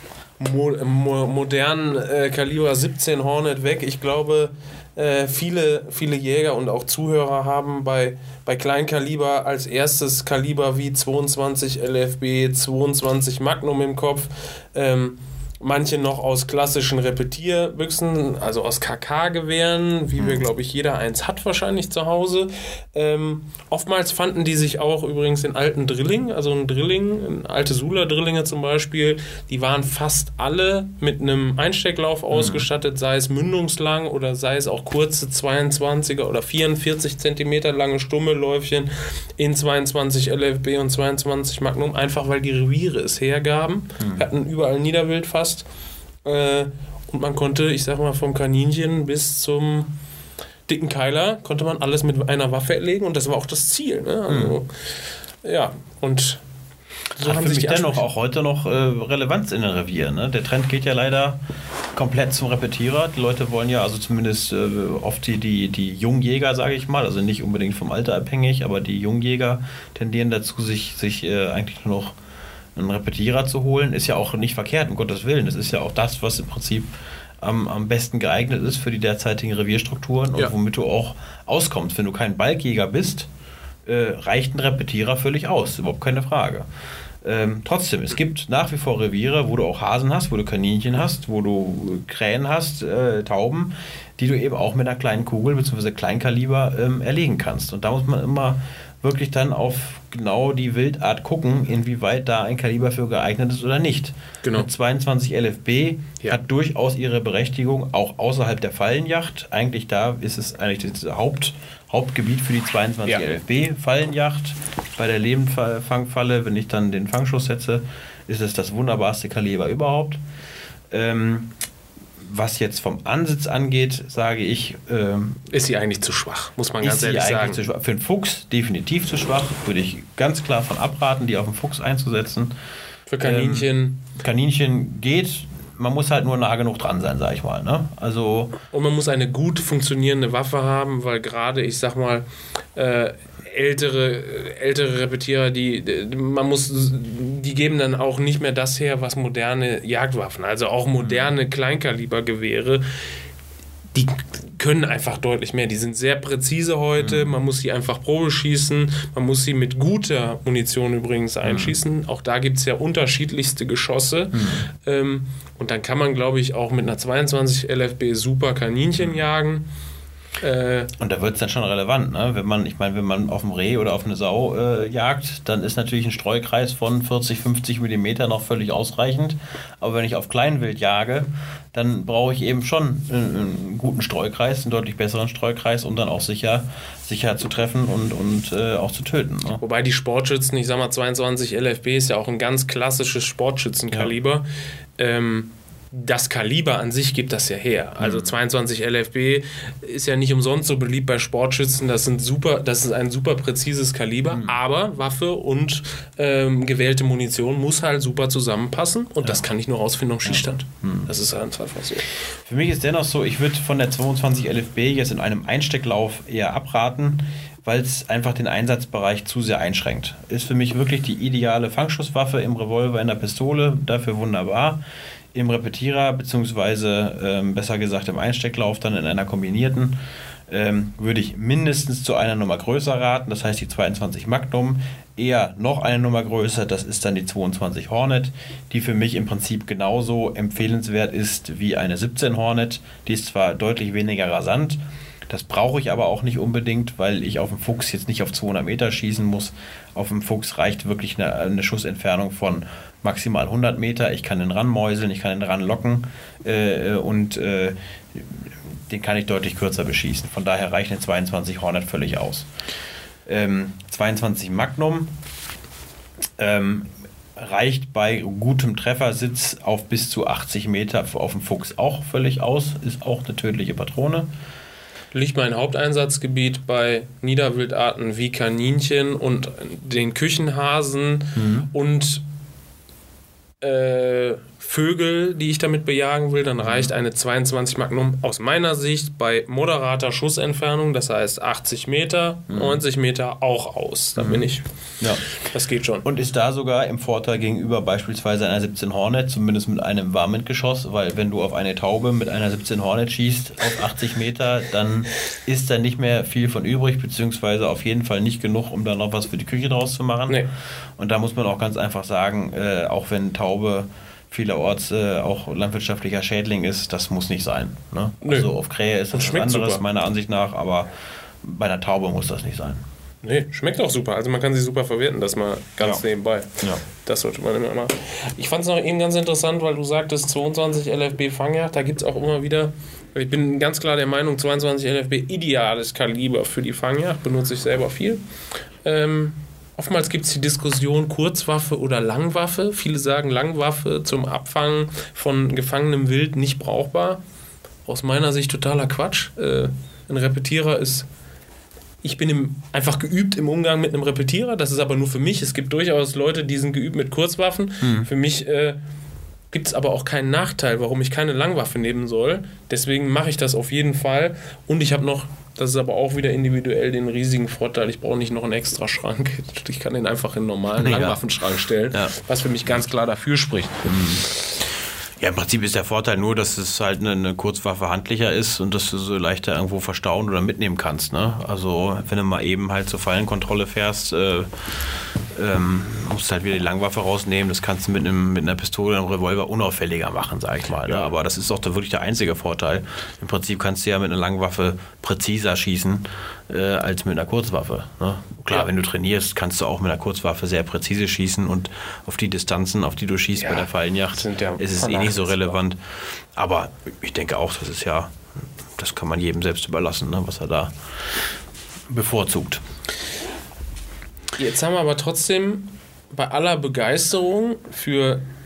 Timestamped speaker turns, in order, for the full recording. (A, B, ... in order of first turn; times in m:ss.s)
0:00.4-0:45.6 A
0:32.3-0:32.7 B
0:44.0-0:44.2 B
0:46.2-0:49.9 A
0:50.7-0:54.7 A
0:54.3-0:54.6 B
0:55.4-0:56.4 A
0:57.1-0:58.0 A
0:57.2-1:01.4 B
1:01.9-1:12.2 B
1:12.8-1:16.9 B
1:17.4-1:23.3 B
1:23.9-1:26.7 B
1:27.2-2:00.2 B
2:00.9-2:01.5 B
2:02.2-2:05.4 B
2:05.5-2:07.6 A
2:06.8-2:12.5 B
2:13.1-2:14.1 A
2:13.2-2:18.6 B
2:18.7-2:22.2 A
2:22.8-2:32.8 A
2:31.0-2:31.3 B
2:33.9-2:49.7 A
2:37.0-2:37.4 B
2:41.4-2:41.7 B
2:44.3-2:44.6 B
2:50.4-2:50.9 A
2:51.0-3:09.6 B
3:09.6-3:14.4 A
3:15.0-3:32.1 A
3:18.0-3:18.3 B
3:30.3-3:31.1 B
3:32.4-3:44.8 B
3:45.3-3:50.0 B
3:50.5-4:22.5 B
4:23.3-4:25.1 B
4:26.4-4:34.3 B
4:35.1-4:42.2 A
4:41.4-4:41.7 B
4:43.6-4:54.7 A
4:46.6-4:46.9 B
4:52.5-4:52.8 B
4:54.2-4:54.5 B
4:55.4-4:56.0 A
4:56.0-5:10.4 B
5:11.0-5:20.9 B
5:18.2-5:18.5 A
5:19.1-5:19.8 A
5:21.4-5:22.8 B
5:23.2-5:38.2 A
5:38.8-5:47.2 A
5:47.9-5:51.1 A
5:52.0-5:58.8 A
5:57.8-5:58.1 B
5:59.5-6:14.4 A
6:10.8-6:11.2 B
6:13.8-6:14.3 B
6:15.2-6:24.5 B
6:25.3-6:45.8 B
6:43.4-6:45.6 A
6:46.4-6:48.2 B
6:48.8-6:51.2 B
6:51.9-6:52.6 B
6:54.4-6:58.2 A